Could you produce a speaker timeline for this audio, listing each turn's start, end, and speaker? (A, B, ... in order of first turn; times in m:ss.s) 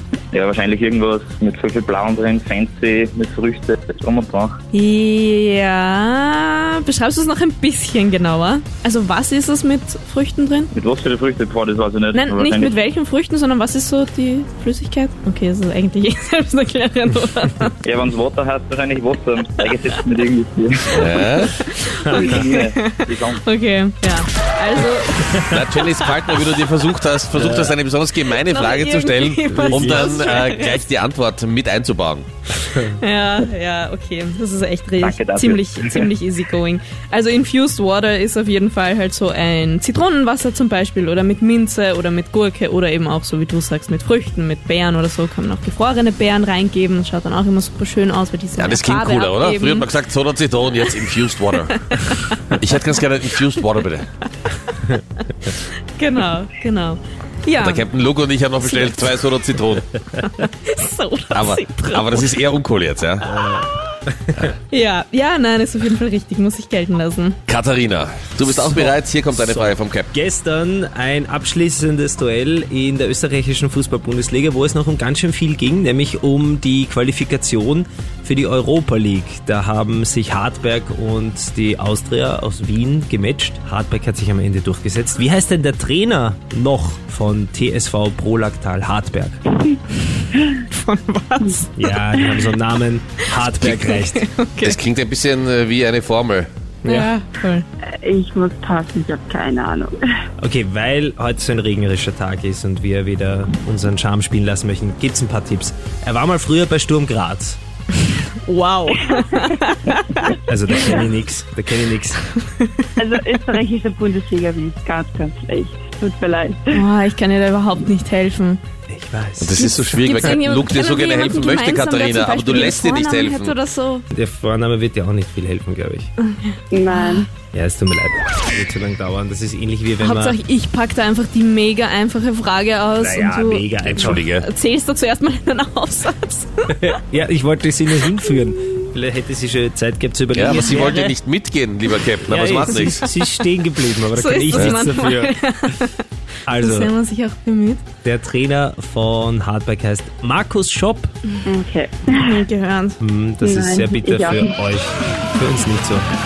0:00.3-0:04.6 A
0:04.7-0:10.7 B
0:10.7-0:12.7 A
0:12.1-0:17.8 B
0:17.8-0:21.1 A
0:20.9-0:21.5 C
0:21.6-0:26.1 B
0:22.0-0:22.4 D
0:22.1-0:23.4 A
0:25.3-0:25.6 D
0:25.5-0:32.3 C
0:27.3-0:27.8 D
0:28.3-0:30.8 B
0:29.5-0:30.2 D
0:32.8-0:49.9 B
0:35.0-0:36.1 A
0:48.6-0:51.8 C
0:51.7-0:52.5 B
0:52.5-0:54.1 C
0:55.7-0:57.9 B
0:57.6-0:59.9 C
0:58.6-0:59.2 B
1:00.2-1:02.3 B
1:01.3-1:03.3 C
1:03.2-1:04.5 D
1:04.7-1:07.4 B
1:07.5-1:10.1 C
1:08.4-1:29.4 D
1:30.5-1:32.4 B
1:31.8-1:34.3 D
1:33.9-1:34.8 B
1:34.6-1:36.5 C
1:36.8-1:37.1 D
1:36.8-1:37.7 B
1:38.0-1:40.0 E
1:40.4-1:47.6 D
1:48.4-1:50.3 B
1:50.5-1:52.2 D
1:52.4-1:52.9 B
1:53.0-1:56.8 E
1:56.7-1:58.6 B
1:58.9-1:59.6 D
1:59.4-2:03.6 C
1:59.6-2:04.0 B
2:04.1-2:06.1 D
2:06.3-2:07.3 B
2:06.7-2:07.3 E
2:07.5-2:10.4 D
2:10.0-2:16.7 B
2:13.0-2:14.2 D
2:13.9-2:14.5 C
2:16.7-2:21.2 D
2:20.3-2:23.1 C
2:22.2-2:25.4 D
2:24.1-2:25.9 B
2:24.5-2:24.8 C
2:26.5-2:26.9 D
2:26.6-2:27.8 B
2:28.0-2:31.1 D
2:31.5-2:32.4 E
2:32.1-2:33.0 B
2:33.0-2:36.1 D
2:33.4-2:34.5 E